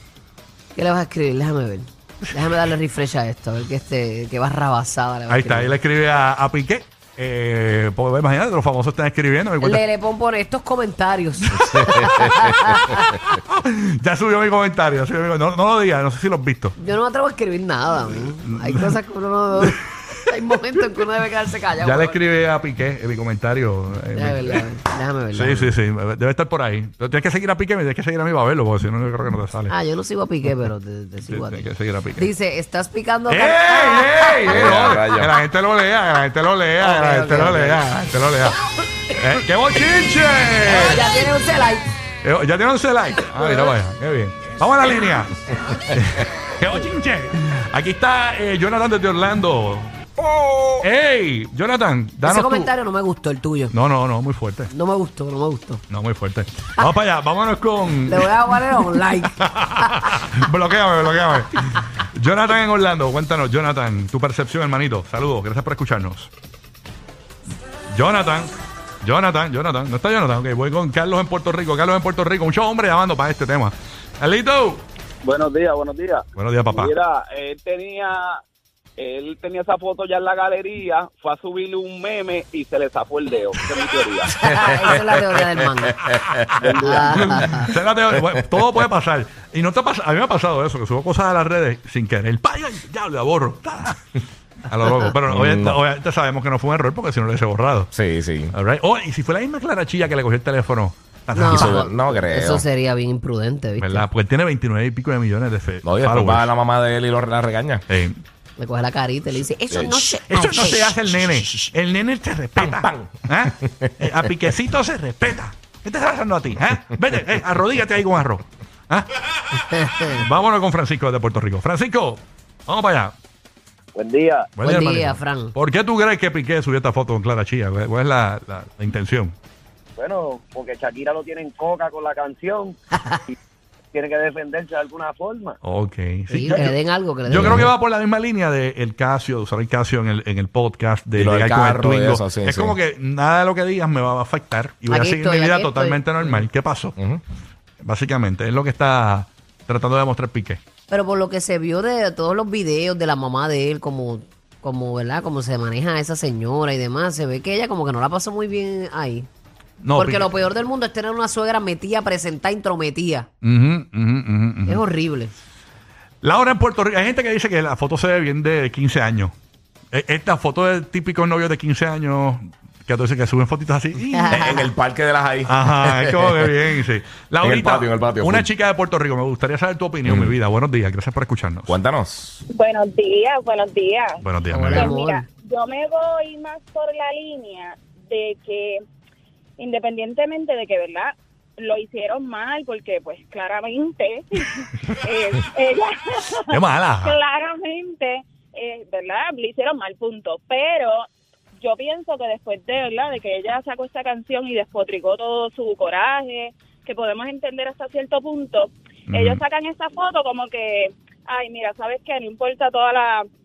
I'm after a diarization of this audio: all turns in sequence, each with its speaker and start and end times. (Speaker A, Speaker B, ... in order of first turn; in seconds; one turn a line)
Speaker A: 0.7-5.8
Speaker B: 5.3-9.8
Speaker A: 9.6-13.2
Speaker B: 11.7-12.2
Speaker B: 13.0-16.7
Speaker A: 16.8-22.2
Speaker B: 18.4-18.9
Speaker B: 21.8-24.6
Speaker A: 24.1-25.7
Speaker B: 25.3-29.7
Speaker A: 29.7-34.8
Speaker B: 31.3-32.3
Speaker B: 33.3-38.6
Speaker C: 34.5-35.3
Speaker A: 36.8-37.8
Speaker B: 39.1-41.0
Speaker A: 40.6-41.9
Speaker B: 42.2-49.9
Speaker B: 50.8-52.7
Speaker A: 52.2-53.7
Speaker B: 53.7-54.7
Speaker A: 54.7-55.8
Speaker B: 55.9-66.3
Speaker A: 58.1-60.2
Speaker B: 67.9-74.8
Speaker D: 75.2-78.4
Speaker B: 76.3-76.9
Speaker D: 79.0-84.9
Speaker A: 84.4-86.0
Speaker D: 86.5-87.5
Speaker A: 86.8-87.7
Speaker B: 87.1-94.2
Speaker B: 94.7-97.9
Speaker A: 94.8-95.1
Speaker C: 95.3-95.8
Speaker C: 97.9-98.5
Speaker B: 98.5-101.9
Speaker A: 101.3-104.0
Speaker C: 101.5-102.7
Speaker B: 103.8-106.5
Speaker C: 105.8-107.8
Speaker B: 107.9-108.2
Speaker A: 108.6-110.9
Speaker C: 109.7-110.1
Speaker B: 110.3-119.1
Speaker C: 112.6-113.9
Speaker B: 119.6-123.1
Speaker A: 119.7-120.2
Speaker D: 123.9-124.5
Speaker B: 124.6-129.3
Speaker A: 124.6-125.5
Speaker D: 129.9-132.8
Speaker D: 133.9-135.6
Speaker B: 135.6-147.0
Speaker A: 136.3-137.7
Speaker C: 137.3-137.7
Speaker C: 141.2-142.8
Speaker A: 144.9-146.0
Speaker B: 147.8-150.6
Speaker A: 150.9-159.3
Speaker B: 159.8-160.3
Speaker A: 159.9-163.3
Speaker B: 163.4-164.8
Speaker A: 164.7-165.3
Speaker B: 166.2-169.3
Speaker B: 169.9-174.7
Speaker A: 174.2-174.6
Speaker C: 174.3-176.6
Speaker B: 175.4-181.8
Speaker C: 177.4-178.5
Speaker C: 180.0-180.4
Speaker C: 181.7-182.4
Speaker E: 182.5-184.2
Speaker B: 184.2-184.9
Speaker A: 184.5-185.3
Speaker E: 184.7-188.7
Speaker E: 189.6-191.1
Speaker E: 191.6-200.9
Speaker B: 196.5-197.2
Speaker E: 201.6-213.2
Speaker B: 209.1-209.4